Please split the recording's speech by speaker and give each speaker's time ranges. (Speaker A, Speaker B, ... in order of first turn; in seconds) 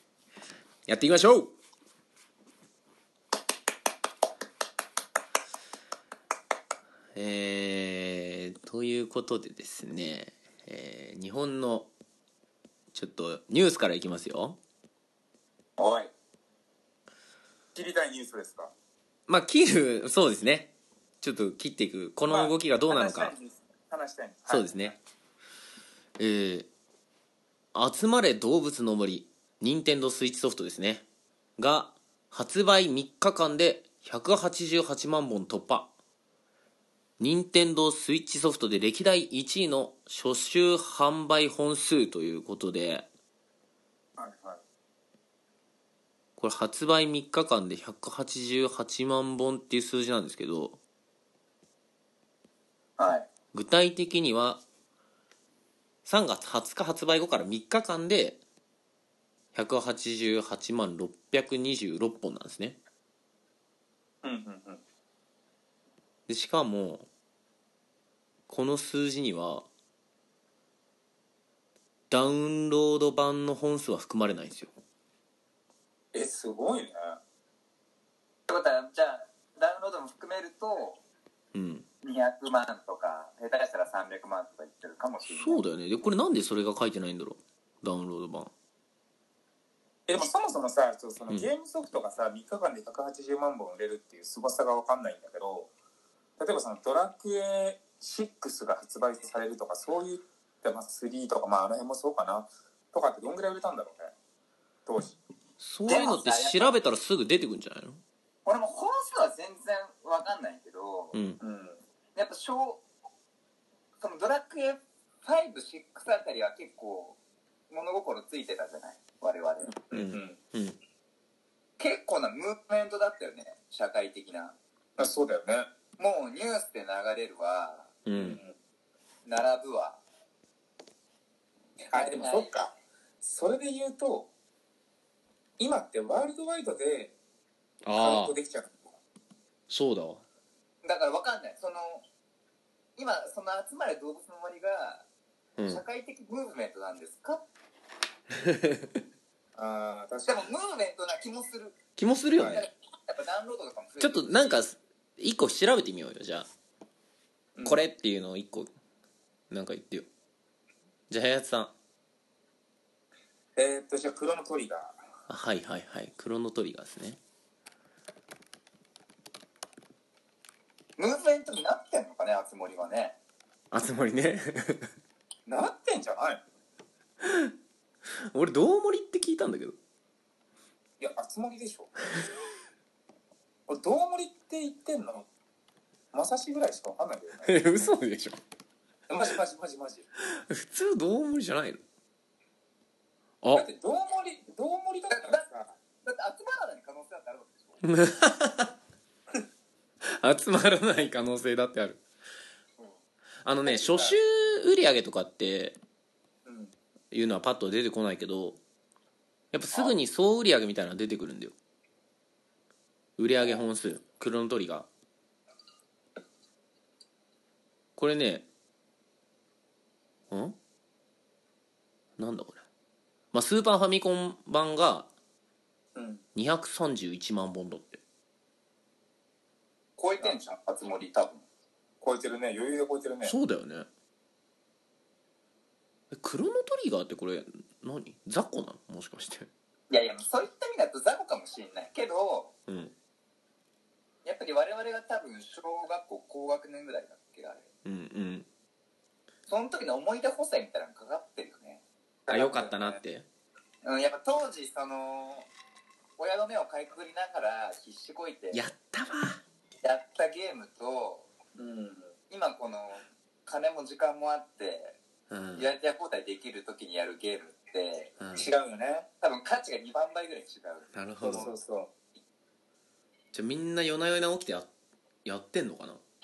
Speaker A: 0.9-1.5, 7.1-11.9, 12.9-14.6, 19.3-23.3, 24.5-24.9, 26.2-26.7, 27.7-31.0, 31.6-35.9, 37.2-43.1, 46.4-50.8, 53.5-54.6, 56.0-58.4, 59.5-62.8, 66.3-67.1, 68.5-69.7, 72.1-74.7, 81.5-81.8, 85.3-88.5, 105.6-108.0, 111.1-111.4, 119.9-120.8, 128.1-128.4, 137.8-138.3, 139.7-140.2, 148.3-148.9, 152.0-152.6, 154.0-156.5, 157.6-158.7, 159.5-160.1, 161.1-161.7, 165.3-167.2, 173.7-174.9, 177.2-177.5, 178.3-179.8, 187.4-188.4, 190.3-191.8, 197.8-198.7, 200.1-202.0, 203.4-205.8, 207.1-208.6, 209.5-211.5, 213.2-214.9, 218.0-218.5, 220.3-220.6, 222.2-222.6, 223.3-225.1, 226.3-228.0, 233.2-233.9, 236.1-239.5, 242.7-242.9, 247.8-248.5, 252.3-253.2, 258.5-259.4, 265.3-265.7, 268.2-268.5, 270.9-271.5, 273.3-274.7, 275.2-276.0
Speaker B: 15.8-16.1, 53.0-53.3, 78.5-81.0, 82.0-85.6, 105.9-106.8, 108.4-111.2, 112.1-112.8, 114.0-117.2, 117.7-119.8, 121.8-124.5, 126.0-127.9, 129.2-130.0, 131.9-132.5, 140.8-142.0, 143.0-145.1, 145.7-147.4, 150.2-151.8, 152.5-154.6, 171.0-173.2, 195.1-195.4, 196.0-197.8, 230.0-231.4, 239.9-242.5, 244.2-247.7, 249.5-251.8, 253.8-255.5, 256.2-258.7, 259.8-261.3, 262.3-265.0, 265.6-268.1, 269.2-271.4
Speaker C: 17.7-18.7, 22.3-24.9, 44.2-44.6, 64.2-64.8, 76.1-77.2, 90.1-95.7, 96.4-104.1, 104.8-105.2, 111.4-111.8, 119.9-120.3, 125.0-125.7, 128.1-128.5, 131.9-134.3, 135.6-137.1, 138.0-138.9, 149.6-150.5, 157.5-157.8, 163.6-165.0, 175.5-176.4, 181.0-181.9, 183.7-185.3, 186.1-187.5, 189.1-190.1, 193.5-195.7, 203.7-204.2, 206.4-206.7, 225.9-226.2, 232.0-233.3, 252.2-253.0, 261.6-262.1, 268.4-269.1, 271.2-271.9